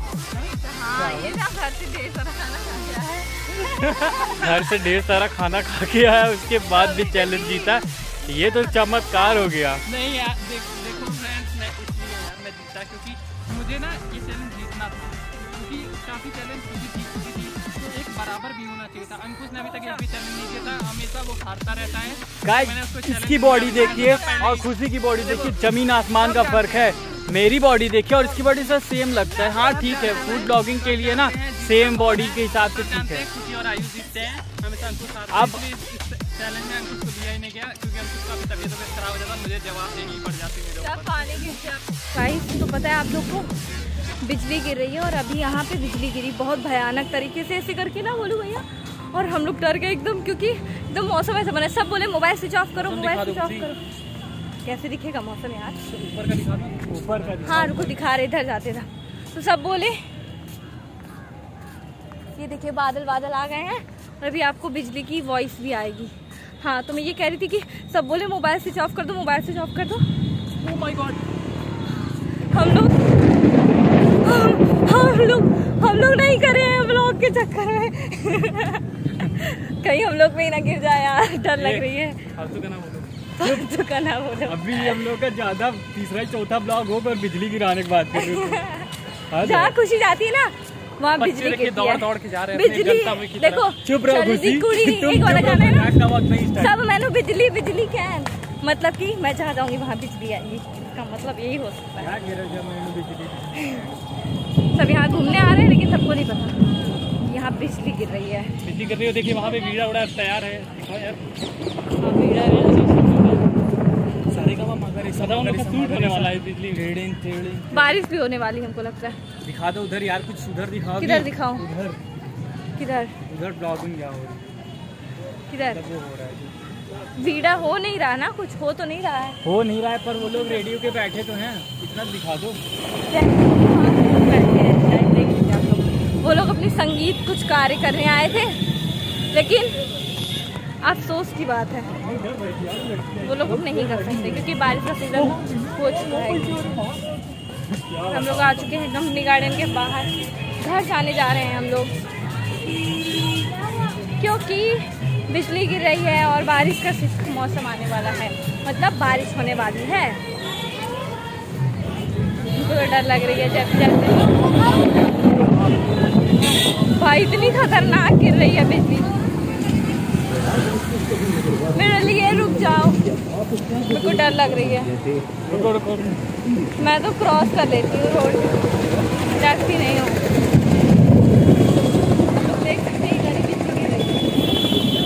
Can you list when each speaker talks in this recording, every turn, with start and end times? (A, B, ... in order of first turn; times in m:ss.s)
0:00.3-0:04.4 A
0:00.9-0:01.4 B
0:04.2-0:09.8 B
0:06.7-0:07.8 A
0:08.5-0:09.5 A
0:09.8-0:25.6 C
0:22.4-0:33.2 B
0:23.7-0:24.5 A
0:26.2-0:27.0 C
0:29.3-0:41.5 C
0:35.3-0:35.6 B
0:40.8-0:43.5 A
0:44.2-0:53.8 A
0:52.8-0:53.7 C
0:54.6-0:55.8 A
0:55.9-0:57.8 C
0:56.9-0:58.0 B
0:57.5-1:00.0 A
1:02.4-1:10.0 A
1:10.6-1:11.2 C
1:12.5-1:13.0 A
1:14.2-1:22.2 A
1:21.6-1:23.1 C
1:23.4-1:25.0 A
1:23.4-1:23.7 B
1:24.4-1:28.6 B
1:28.1-1:36.0 A
1:29.3-1:29.8 B
1:31.2-1:33.6 C
1:33.8-1:36.8 B
1:36.6-1:42.1 A
1:42.0-1:43.9 B
1:43.6-1:43.8 A
1:44.7-1:46.6 A
1:47.2-1:48.5 A
1:48.6-1:51.2 C
1:52.0-1:52.6 A
1:52.2-1:53.4 C
1:54.3-1:58.0 B
1:55.1-1:56.8 C
1:57.7-1:59.2 A
1:59.4-2:02.0 B
2:01.0-2:01.6 A
2:02.8-2:03.1 A
2:03.2-2:04.4 B
2:05.5-2:05.8 A
2:05.7-2:06.5 B
2:07.2-2:09.4 A
2:09.4-2:12.6 B
2:13.1-2:18.6 A
2:19.3-2:19.8 A
2:20.8-2:22.0 A
2:22.0-2:24.2 B
2:23.2-2:26.9 A
2:26.6-2:27.0 B
2:27.8-2:28.8 B
2:28.1-2:32.0 A
2:34.0-2:40.2 A
2:42.6-2:44.5 A
2:46.9-2:49.1 A
2:51.7-2:53.0 A
2:53.9-2:55.0 A
2:55.5-2:56.1 B
2:56.8-2:58.7 A
2:59.3-3:00.2 A
3:02.3-3:04.5 A